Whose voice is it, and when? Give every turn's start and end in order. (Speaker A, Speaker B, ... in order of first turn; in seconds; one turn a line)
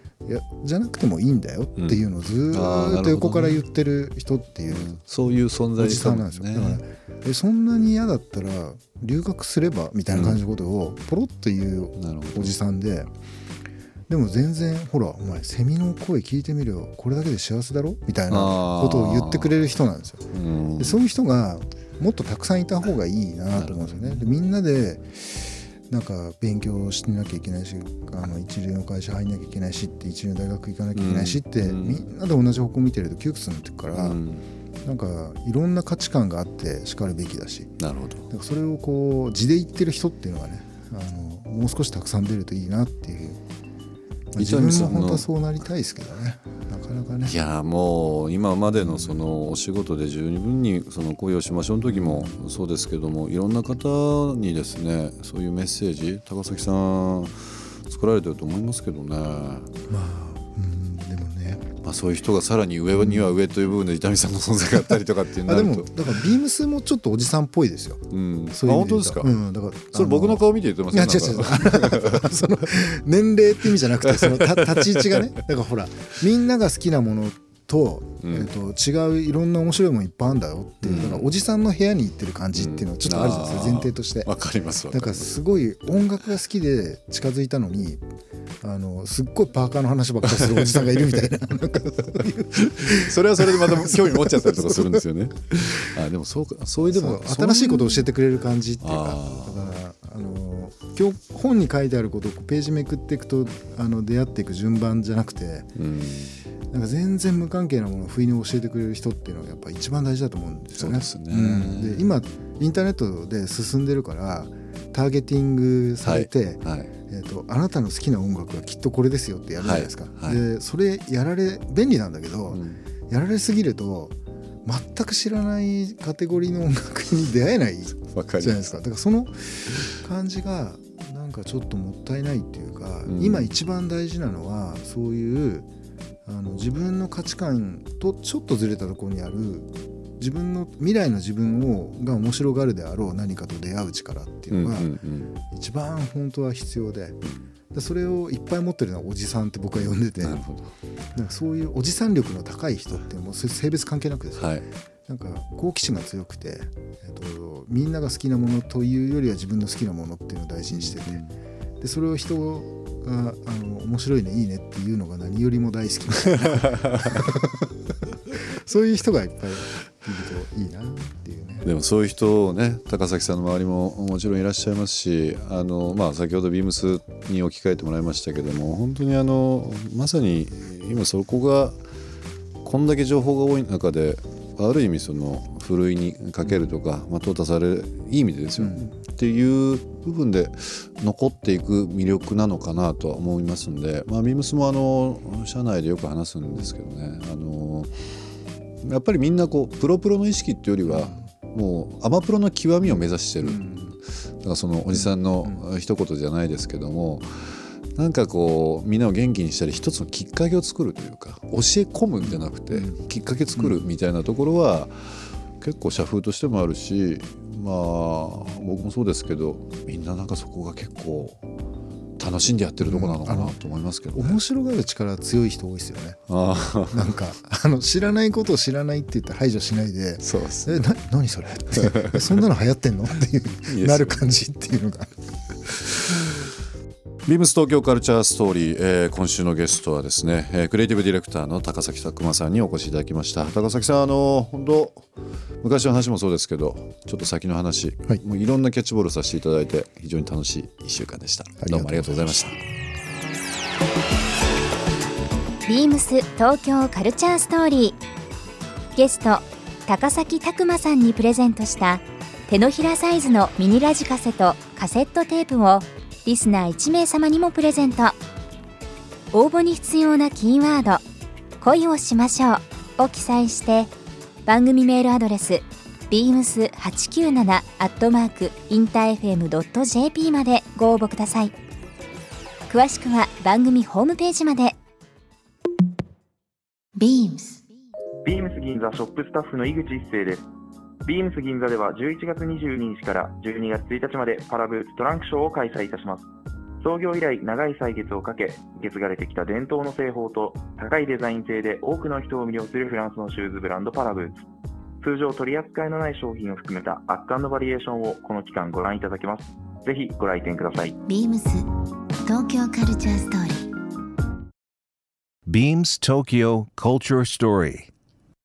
Speaker A: 0.2-5.0
Speaker B: 1.8-3.6
Speaker B: 4.7-6.8
Speaker A: 5.8-13.1
Speaker B: 10.1-10.4
Speaker B: 12.0-12.5
Speaker A: 14.1-34.2
Speaker B: 18.3-19.6
Speaker B: 20.3-21.0
Speaker B: 23.5-24.3
Speaker B: 30.9-32.0
Speaker B: 33.9-34.5
Speaker A: 34.8-37.7
Speaker B: 37.8-38.2
Speaker A: 38.3-43.4
Speaker A: 44.3-47.4
Speaker B: 44.4-45.3
Speaker B: 47.2-59.7
Speaker A: 48.8-49.2
Speaker A: 51.9-52.4
Speaker A: 59.9-61.7
Speaker B: 61.8-66.2
Speaker A: 62.9-63.4
Speaker A: 65.5-68.1
Speaker B: 68.1-69.3
Speaker A: 68.6-84.3
Speaker B: 69.9-72.4
Speaker B: 74.1-75.1
Speaker B: 78.2-78.5
Speaker B: 80.8-81.3
Speaker B: 82.5-85.3
Speaker A: 84.9-88.0
Speaker A: 88.6-95.0
Speaker B: 90.6-90.9
Speaker B: 92.5-98.1
Speaker A: 96.9-105.7
Speaker B: 98.8-99.7
Speaker B: 105.8-106.4
Speaker A: 106.7-135.7
Speaker B: 110.8-112.1
Speaker B: 116.0-116.9
Speaker B: 119.6-120.4
Speaker B: 122.5-122.8
Speaker B: 128.1-128.6
Speaker B: 133.1-133.6
Speaker A: 136.2-144.9
Speaker B: 144.5-145.3
Speaker A: 145.5-147.2
Speaker A: 147.7-150.4
Speaker B: 150.2-150.7
Speaker A: 151.2-161.2
Speaker B: 154.4-154.7
Speaker B: 160.7-161.3
Speaker A: 161.8-167.6
Speaker A: 168.3-171.7
Speaker B: 171.6-181.8
Speaker B: 182.6-198.1
Speaker A: 188.6-188.9
Speaker B: 198.8-203.7
Speaker A: 200.9-201.3
Speaker A: 202.8-204.0
Speaker B: 204.3-221.4
Speaker A: 204.9-205.6
Speaker A: 212.2-213.0
Speaker A: 213.6-213.8
Speaker B: 222.2-224.4
Speaker A: 222.8-223.6
Speaker A: 224.1-226.2
Speaker B: 226.3-227.1
Speaker A: 226.9-235.2
Speaker B: 230.2-230.9
Speaker B: 231.8-232.3
Speaker B: 233.7-234.2
Speaker B: 237.3-245.1
Speaker B: 245.6-252.6
Speaker A: 251.6-252.6
Speaker C: 255.7-258.0
Speaker C: 258.9-268.2
Speaker C: 269.3-271.0
Speaker C: 271.6-273.9
Speaker C: 274.5-281.5
Speaker C: 282.7-284.8
Speaker D: 287.0-287.6
Speaker E: 288.2-290.4
Speaker E: 291.1-296.3
Speaker E: 296.8-304.4
Speaker E: 305.0-310.9
Speaker D: 311.1-311.7
Speaker D: 312.3-313.7
Speaker F: 315.5-317.9